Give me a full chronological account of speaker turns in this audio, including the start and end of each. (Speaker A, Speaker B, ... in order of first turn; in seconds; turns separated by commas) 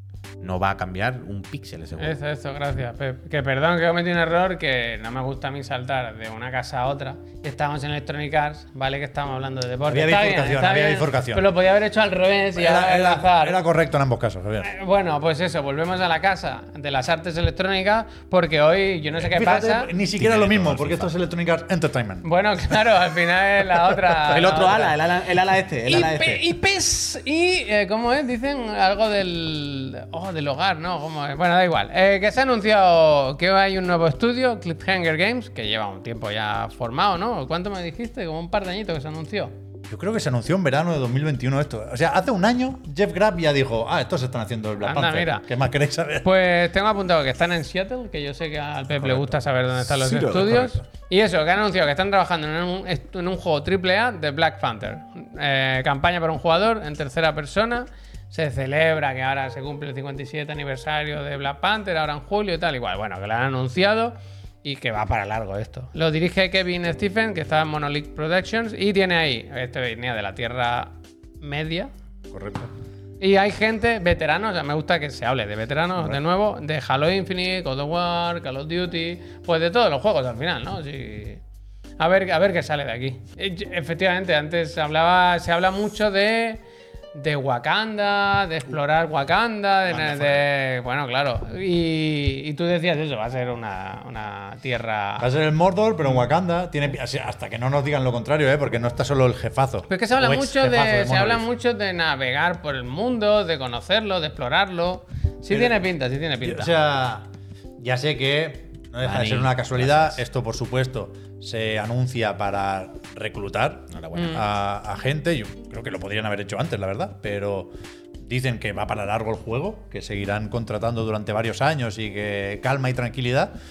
Speaker A: 0.4-2.2, Speaker B: 2.0-13.6, Speaker C: 9.9-11.4, Speaker C: 12.5-14.7, Speaker B: 14.6-19.9, Speaker C: 19.2-22.7, Speaker A: 20.2-21.1, Speaker B: 22.2-24.9, Speaker C: 23.9-24.9, Speaker A: 24.3-26.4, Speaker B: 25.9-39.5, Speaker C: 39.9-46.3, Speaker B: 44.8-45.4, Speaker B: 46.2-71.9, Speaker C: 49.0-49.4, Speaker A: 49.9-50.7, Speaker C: 72.3-72.7, Speaker B: 73.2-81.4, Speaker B: 82.0-86.6, Speaker B: 87.1-95.3, Speaker C: 89.9-90.5, Speaker C: 95.2-101.5, Speaker B: 99.9-106.7, Speaker C: 105.5-105.8, Speaker C: 106.4-107.3, Speaker C: 107.8-117.7, Speaker A: 109.0-110.2, Speaker A: 113.9-114.4, Speaker B: 114.1-114.4, Speaker C: 118.2-123.6